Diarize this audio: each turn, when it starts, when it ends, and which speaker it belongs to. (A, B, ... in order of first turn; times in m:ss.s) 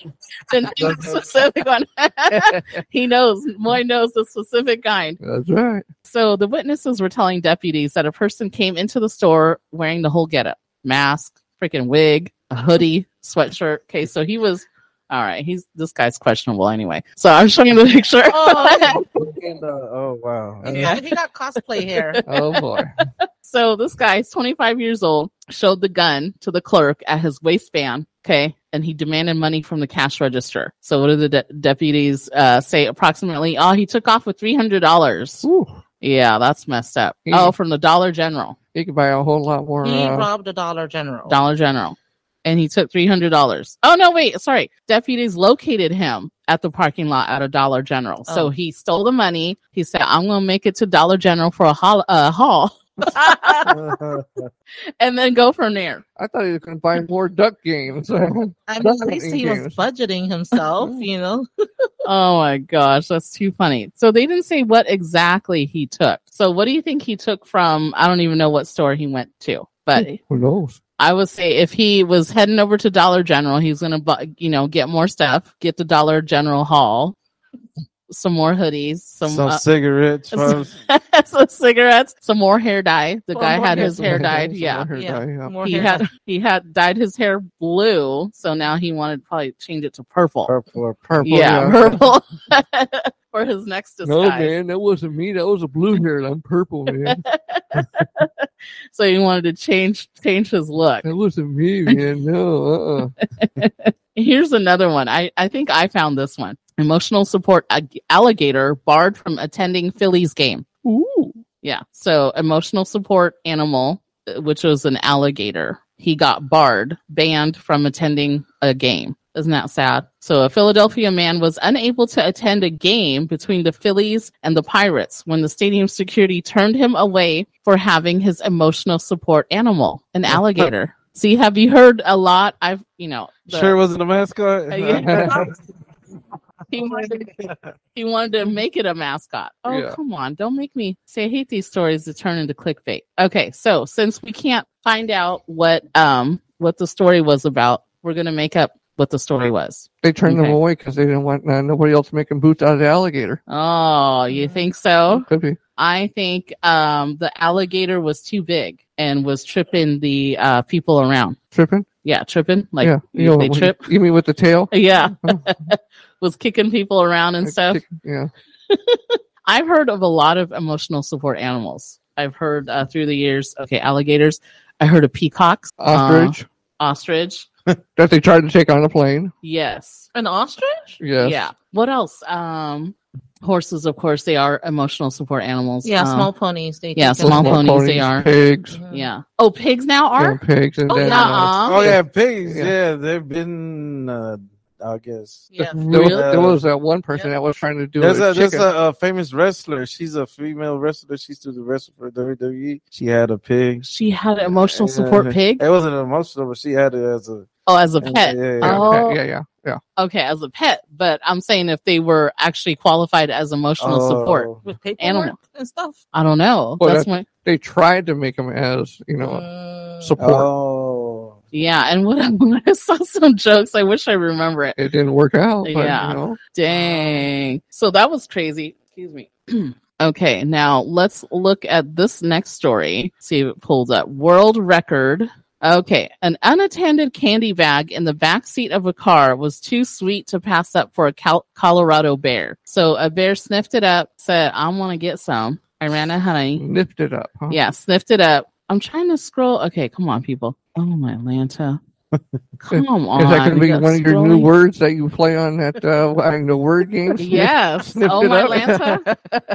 0:00.5-0:05.2 A
0:00.8-0:01.2 B
0:05.2-0:05.8 C
0:06.1-0:19.0 A
0:18.3-0:19.0 D
0:18.9-0:21.0 B
0:20.7-0:22.2 D
0:20.7-0:21.0 A
0:21.8-0:35.5 A
0:22.3-0:22.9 C
0:35.4-0:35.8 C
0:36.0-0:38.6 A
0:37.3-0:37.5 C
0:38.7-0:40.3 C
0:39.8-0:41.4 D
0:41.3-0:53.8 A
0:48.3-0:48.5 D
0:53.2-0:53.7 D
0:53.7-0:54.5 B
0:55.0-0:56.0 A
0:56.2-0:59.8 C
0:58.7-1:01.9 D
1:02.0-1:10.2 A
1:10.0-1:10.8 C
1:11.0-1:17.2 A
1:18.1-1:19.6 A
1:19.2-1:20.7 B
1:20.3-1:24.9 A
1:23.3-1:24.3 D
1:23.8-1:25.6 C
1:24.9-1:26.1 D
1:25.6-1:30.5 A
1:30.5-1:31.1 B
1:31.1-1:32.0 C
1:31.2-1:34.6 A
1:34.0-1:37.2 C
1:37.0-1:41.1 A
1:41.0-1:43.1 C
1:43.4-1:50.7 A
1:50.8-1:51.4 C
1:51.6-2:13.8 A
2:13.5-2:15.6 B
2:14.7-2:15.5 A
2:15.0-2:15.4 C
2:16.7-2:17.3 A
2:16.8-2:17.6 B
2:17.9-2:30.6 A
2:19.7-2:20.0 C
2:30.0-2:33.4 C
2:33.5-2:41.4 A
2:34.3-2:34.7 D
2:35.1-2:35.6 C
2:41.5-2:41.9 C
2:42.0-2:43.9 A
2:42.8-2:45.4 C
2:44.7-2:47.8 A
2:47.4-2:48.3 C
2:48.7-2:57.5 A
2:55.8-2:56.4 C
2:58.0-2:59.3 C
2:59.4-3:00.1 A
3:00.1-3:01.0 D
3:01.0-3:01.4 C
3:01.2-3:06.3 A
3:05.8-3:07.6 D
3:07.0-3:08.3 A
3:07.2-3:08.8 C
3:08.7-3:09.1 D
3:08.9-3:10.4 A
3:10.2-3:12.7 C
3:10.9-3:11.6 D
3:11.0-3:11.9 A
3:11.6-3:16.6 B
3:15.5-3:16.2 D
3:15.7-3:18.7 C
3:15.8-3:16.1 A
3:18.0-3:23.9 B
3:23.8-3:25.6 A
3:24.4-3:27.5 B
3:27.7-3:29.2 A
3:28.0-3:28.9 B
3:28.6-3:29.8 C
3:30.0-3:35.4 A
3:33.8-3:34.6 B
3:34.6-3:36.0 D
3:36.1-3:37.3 A
3:36.8-3:39.4 C
3:39.2-3:40.2 D
3:40.0-3:40.5 C
3:40.2-3:41.4 B
3:41.5-3:44.8 A
3:44.8-3:46.4 C
3:45.6-4:06.6 A
3:46.7-3:47.3 D
4:06.6-4:07.6 C
4:07.5-4:11.8 A
4:12.6-4:13.9 A
4:12.7-4:19.2 C
4:13.4-4:14.5 D
4:17.2-4:19.1 A